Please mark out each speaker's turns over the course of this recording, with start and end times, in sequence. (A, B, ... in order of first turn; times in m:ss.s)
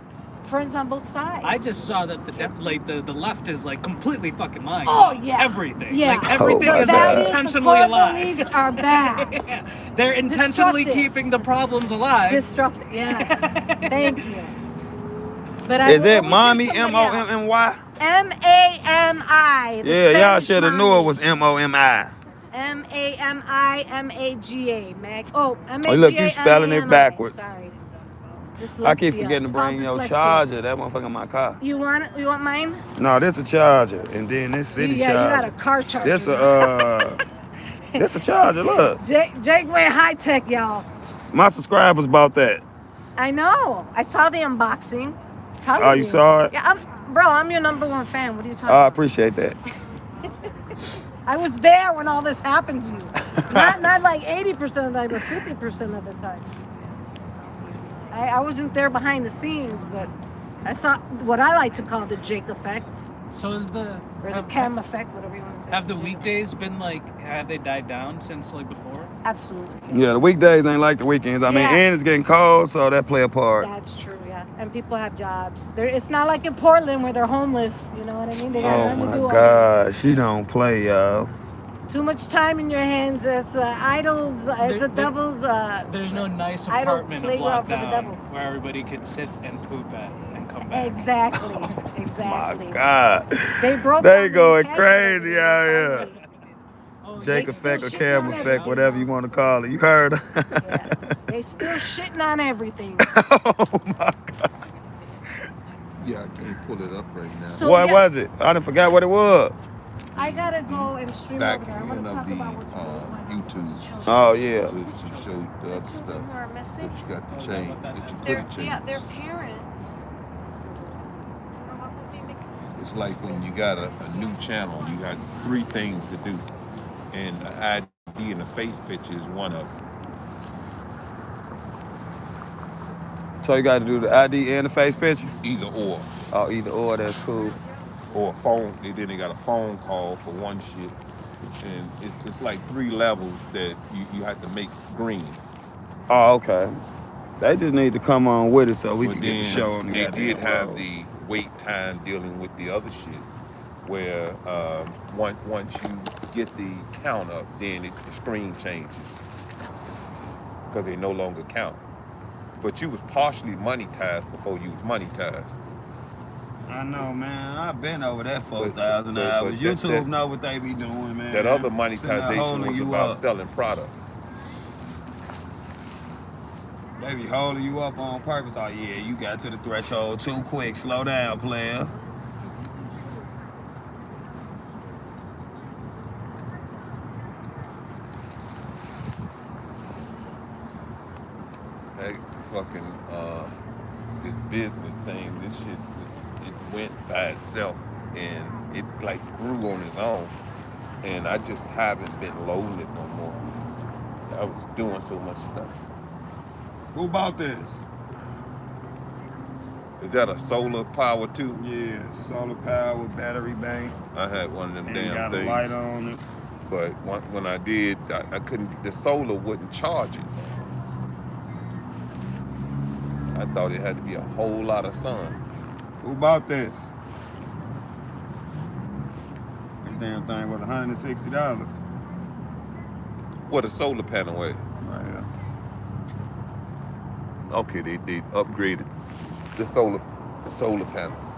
0:00.4-0:02.6 A
0:01.4-0:12.4 B
0:04.8-0:09.4 A
0:06.3-0:07.3 C
0:10.3-0:11.1 A
0:12.3-0:14.5 A
0:13.1-0:14.2 B
0:15.6-0:17.3 A
0:15.8-0:17.8 C
0:18.0-0:21.1 A
0:19.8-0:22.1 C
0:22.5-0:27.8 A
0:25.8-0:27.4 C
0:28.6-0:30.5 A
0:28.8-0:31.6 C
0:31.6-0:32.8 A
0:33.0-0:35.5 C
0:34.7-0:37.1 A
0:36.0-0:37.2 C
0:38.0-0:39.0 C
0:39.0-0:40.9 A
0:41.3-0:42.6 C
0:43.2-0:49.0 A
0:45.8-0:46.5 C
0:48.6-0:49.6 C
0:51.2-0:56.4 A
0:53.4-0:53.6 C
0:58.1-1:00.1 A
1:00.6-1:03.0 A
1:03.3-1:04.7 B
1:04.2-1:06.3 A
1:05.7-1:09.1 B
1:09.2-1:10.0 A
1:09.9-1:13.7 C
1:11.4-1:11.8 A
1:13.6-1:19.8 A
1:18.5-1:19.4 B
1:18.6-1:21.3 C
1:21.9-1:28.3 A
1:24.6-1:25.1 B
1:25.9-1:31.4 B
1:30.6-1:32.8 A
1:32.2-1:36.1 C
1:33.6-1:36.2 A
1:37.0-1:39.1 B
1:37.2-1:41.1 C
1:37.2-1:38.9 A
1:40.6-1:43.1 A
1:43.0-1:44.5 C
1:46.0-1:47.6 D
1:47.5-1:48.1 A
1:47.6-1:49.5 C
1:50.1-1:53.8 D
1:50.2-1:57.0 A
1:54.0-1:54.8 C
1:54.6-1:59.1 D
1:54.9-1:55.3 B
1:57.3-1:58.5 B
1:58.2-2:00.1 A
2:01.5-2:02.5 A
2:02.8-2:06.5 D
2:07.1-2:09.7 D
2:13.4-2:15.3 C
2:15.4-2:16.1 D
2:16.3-2:17.6 C
2:18.1-2:20.9 D
2:21.6-2:25.4 D
2:26.1-2:26.8 C
2:27.4-2:30.8 C
2:29.0-2:33.3 D
2:33.8-2:39.2 D
2:40.7-2:41.8 D
2:42.6-2:45.6 D
2:46.7-2:53.2 C
2:48.6-2:50.1 D
2:51.3-2:54.1 D
2:57.0-3:01.9 C
3:12.0-3:13.6 D
3:14.2-3:20.3 D
3:21.0-3:23.4 D
3:24.3-3:25.8 D
3:26.9-3:27.8 C
3:30.0-3:31.6 D
3:31.5-3:34.0 C
3:34.1-3:35.8 D
3:34.9-3:36.2 C
3:36.6-3:40.7 D
3:43.3-3:45.4 D
3:46.0-3:46.9 C
3:49.8-3:51.8 C
3:53.5-3:54.6 D
3:54.8-3:55.3 C
3:57.4-3:58.9 D
3:59.6-4:01.2 D